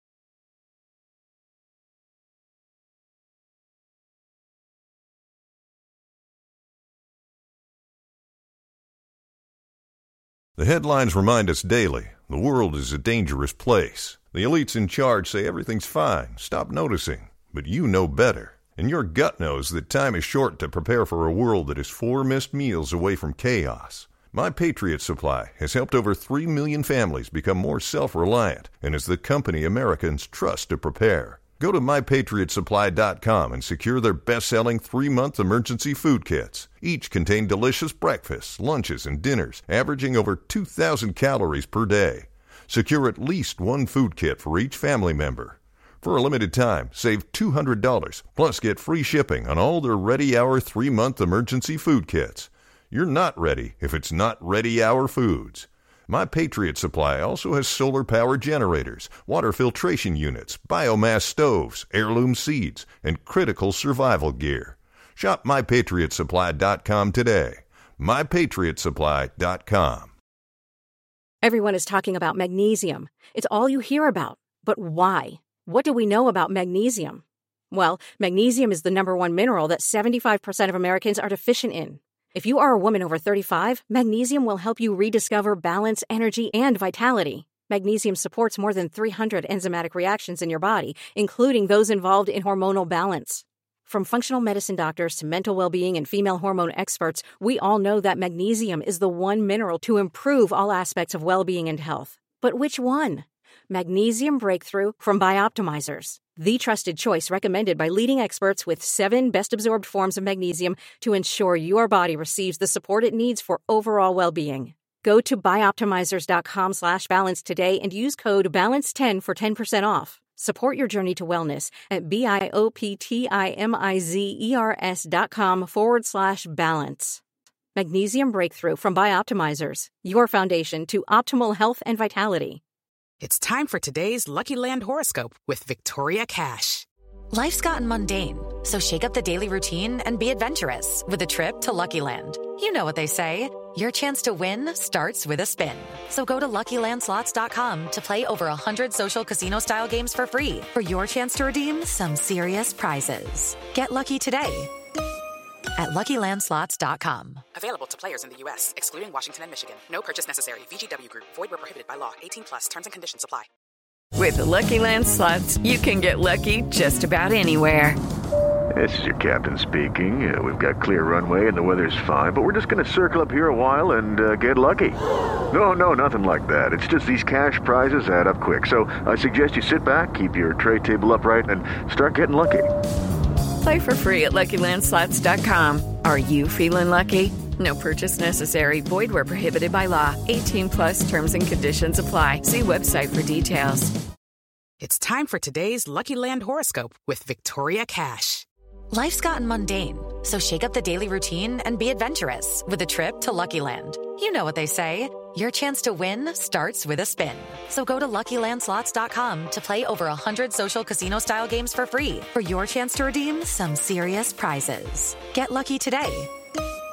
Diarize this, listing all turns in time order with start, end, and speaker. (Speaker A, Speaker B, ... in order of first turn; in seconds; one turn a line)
Speaker A: 10.6-70.1
Speaker B: 71.4-127.2
Speaker B: 127.8-132.6
Speaker C: 133.2-136.9
Speaker D: 137.3-154.7
Speaker D: 155.8-157.4
Speaker C: 157.5-163.5
Speaker E: 164.2-168.0
Speaker F: 168.8-175.0
Speaker F: 175.5-182.7
Speaker E: 183.6-193.9
Speaker C: 194.8-198.5
Speaker D: 198.9-216.3